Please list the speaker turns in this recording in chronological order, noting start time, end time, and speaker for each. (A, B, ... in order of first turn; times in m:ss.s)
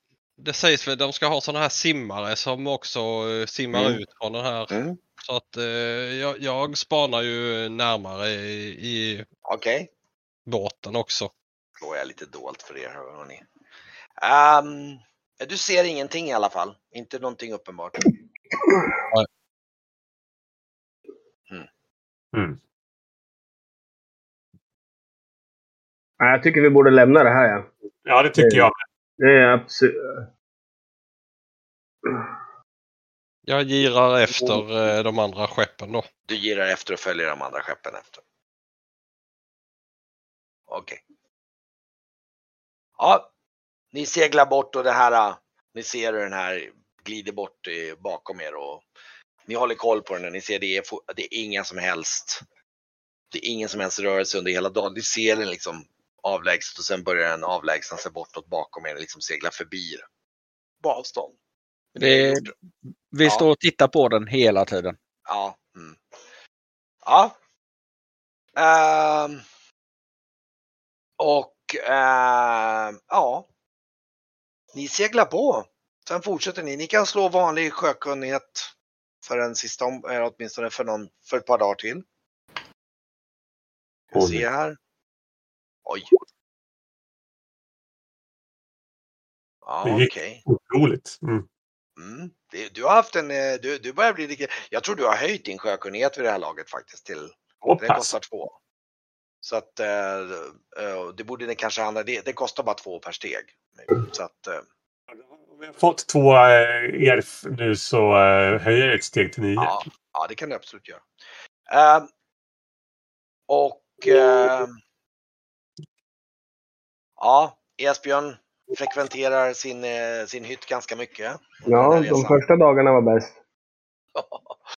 0:00.4-0:09.2 A
0:04.7-0:05.0 B
0:09.4-0:09.9 B
0:10.5-0:11.3 A
0:11.8-0:13.4 B
0:14.2-0:18.0 B
0:26.2-0:27.7 C
0:28.0-0:28.8 D
0:28.4-0:30.2 C
0:33.4-0:36.0 A
0:36.3-0:38.2 B
0:40.7-0:41.0 B
0:43.0-0:43.3 B
0:43.9-0:48.8 B
0:49.5-0:52.4 B
0:53.3-1:00.0 B
1:00.8-1:01.4 B
1:01.9-1:02.5 B
1:02.0-1:02.5 E
1:03.1-1:05.0 E
1:05.3-1:06.0 B
1:07.0-1:07.3 B
1:08.6-1:09.4 B
1:11.2-1:13.4 B
1:14.7-1:18.7 B
1:19.2-1:22.0 B
1:24.1-1:24.8 B
1:24.1-1:24.4 D
1:25.8-1:26.1 B
1:29.6-1:30.4 B
1:29.8-1:31.4 D
1:32.0-1:38.5 B
1:37.6-1:38.1 D
1:39.4-1:44.6 B
1:45.1-1:49.8 D
1:49.6-1:51.0 B
1:51.7-1:52.1 B
1:53.5-1:54.8 B
1:57.2-2:02.4 B
2:01.7-2:03.4 C
2:04.1-2:04.6 B